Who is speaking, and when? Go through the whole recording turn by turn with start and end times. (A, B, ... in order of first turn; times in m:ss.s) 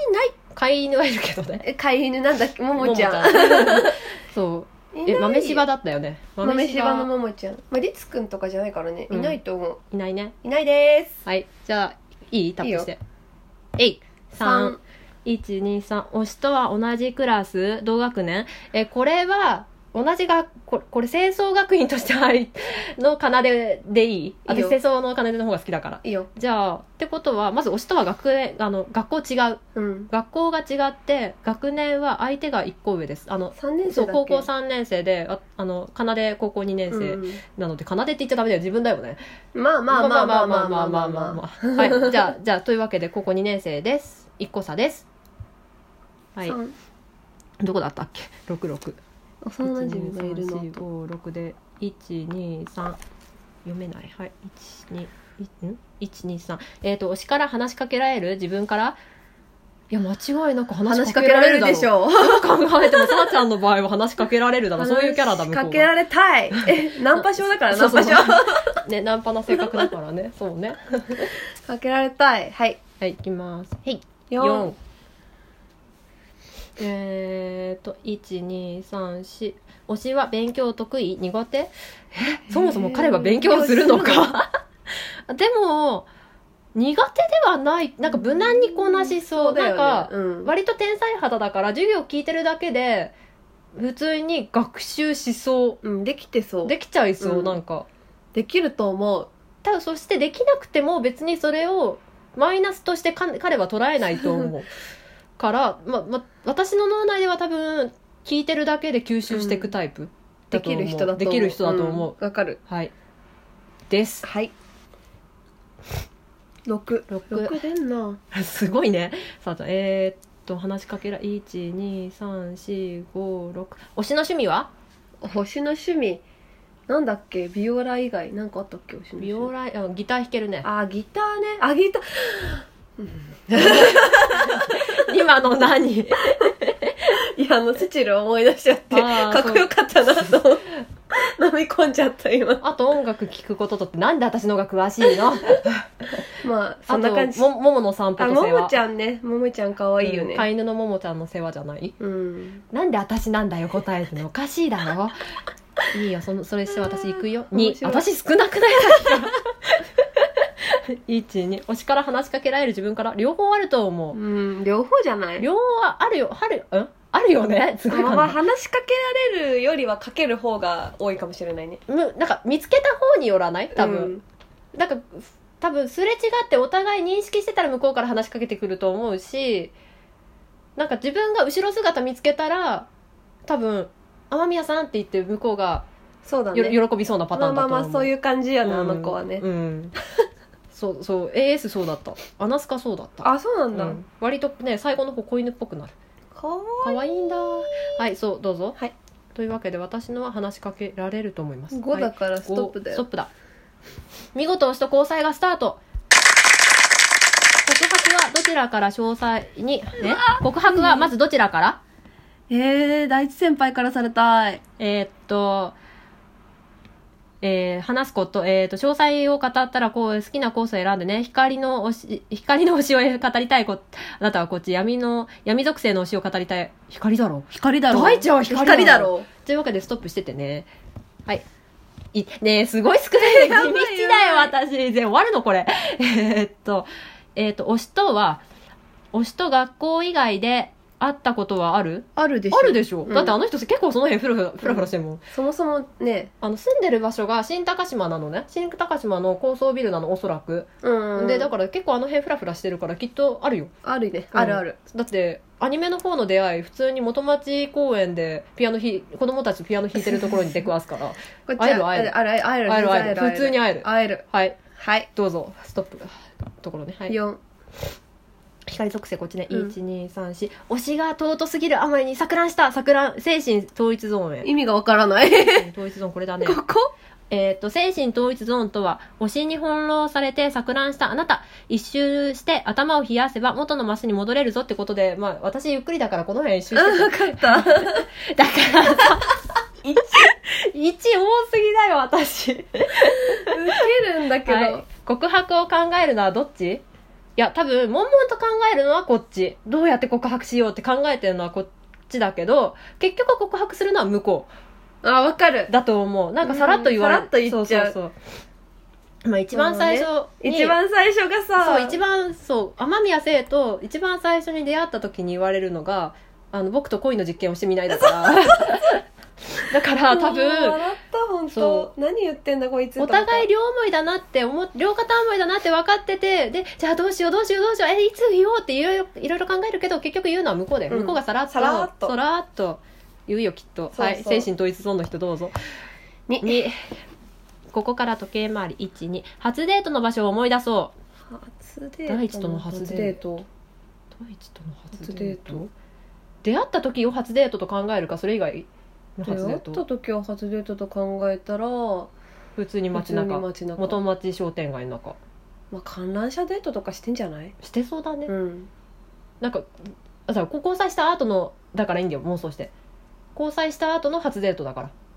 0:00.3-0:01.6 A
0:01.6-0:04.0 B
0:02.8-0:07.1 A
0:04.9-0:05.6 B
0:06.4-0:09.8 B
0:09.1-0:09.4 A
0:09.9-0:10.3 A
0:10.4-0:11.2 B
0:11.2-0:13.0 A
0:12.6-0:12.9 B
0:13.8-0:39.2 A
0:14.4-0:14.8 B
0:24.5-0:24.7 B
0:26.0-0:26.3 B
0:29.8-0:30.1 B
0:33.6-0:34.5 B
0:36.9-0:37.4 B
0:39.5-0:42.3 B
0:39.9-0:45.0 A
0:46.4-0:46.7 B
0:47.6-0:49.0 A
0:49.4-0:50.8 B
0:49.6-0:53.0 A
0:53.6-0:59.0 A
0:59.9-1:05.9 A
1:00.8-1:03.4 B
1:04.8-1:08.8 B
1:07.2-1:11.3 A
1:09.5-1:09.9 B
1:11.2-1:12.8 B
1:13.0-1:14.8 A
1:14.3-1:14.7 B
1:16.8-1:24.4 A
1:22.5-1:24.3 B
1:25.3-1:26.1 A
1:26.7-1:33.1 A
1:28.1-1:30.5 B
1:33.7-1:35.8 A
1:35.8-1:37.6 B
1:36.6-1:37.9 A
1:38.3-1:39.3 B
1:39.6-1:44.7 A
1:45.4-1:52.9 A
1:49.3-1:49.7 B
1:50.5-1:52.6 B
1:53.9-1:54.2 A
1:54.2-1:54.5 B
1:56.7-1:58.2 B
1:57.1-1:57.6 A
1:58.3-2:04.7 A
2:05.2-2:06.2 B
2:06.9-2:09.5 B
2:09.2-2:10.7 A
2:10.6-2:15.0 B
2:13.5-2:17.0 A
2:17.2-2:22.6 B
2:18.9-2:19.7 A
2:22.6-2:26.0 A
2:26.4-2:27.5 B
2:26.9-2:28.7 A
2:28.2-2:30.5 B
2:30.0-2:31.9 A
2:32.0-2:32.6 B
2:32.7-2:35.2 A
2:35.9-2:44.2 A
2:37.1-2:38.1 B
2:44.1-2:45.4 B
2:45.4-2:48.4 A
2:47.9-2:51.8 B
2:51.9-2:54.2 A
2:53.7-2:54.2 B
2:54.7-2:59.7 A
3:00.8-3:02.9 A
3:03.5-3:05.9 A
3:06.2-3:06.8 B
3:06.5-3:08.1 A
3:07.3-3:09.4 B
3:08.6-3:09.9 A
3:10.7-3:15.9 A
3:13.2-3:14.0 B
3:16.3-3:17.6 B
3:16.8-3:18.8 A
3:19.3-3:23.3 A
3:21.7-3:23.0 B
3:24.3-3:25.8 A
3:27.6-3:31.8 A
3:30.0-3:31.1 B
3:32.5-3:34.6 B
3:34.8-3:35.8 A
3:37.4-3:50.7 A
3:47.9-3:49.3 B
3:52.1-3:58.4 A
3:53.2-3:54.5 B
3:59.1-4:05.2 A
4:02.2-4:03.4 B
4:04.6-4:06.3 B
4:06.4-4:13.7 A
4:10.8-4:11.5 B
4:13.8-4:14.8 B
4:14.3-4:22.1 A
4:20.0-4:20.5 B
4:21.5-4:25.1 B
4:22.6-4:24.6 A
4:25.1-4:27.1 A
4:27.1-4:27.4 B
4:28.7-4:34.5 A
4:34.4-4:35.7 B
4:35.5-4:36.6 A
4:36.4-4:36.9 B
4:37.3-4:49.4 A
4:46.7-4:48.0 B
4:49.9-4:50.2 B
4:50.0-4:53.8 A
4:53.2-4:54.8 B
4:54.4-4:56.8 A
4:57.4-5:04.5 A
5:05.0-5:05.7 B
5:05.7-5:08.1 A
5:06.4-5:08.0 B
5:09.3-5:10.8 A
5:09.5-5:12.0 B
5:11.6-5:19.0 A
5:18.2-5:18.7 B
5:19.6-5:20.8 A
5:20.1-5:23.4 B
5:21.5-5:21.9 A
5:23.0-5:35.6 A
5:30.9-5:32.1 B
5:33.9-5:34.5 B
5:36.3-5:36.6 B
5:36.4-5:36.8 A
5:37.7-5:40.9 A
5:41.3-5:43.4 B
5:42.1-5:43.2 A
5:44.1-5:45.7 A
5:44.9-5:45.6 B
5:46.4-5:49.8 A
5:49.2-5:52.1 B
5:52.6-5:55.2 A
5:52.9-5:54.0 B
5:55.7-5:57.5 B
5:57.6-5:58.3 A
5:58.3-5:58.7 B
5:59.4-5:59.7 A
6:00.3-6:02.7 A
6:03.4-6:04.9 A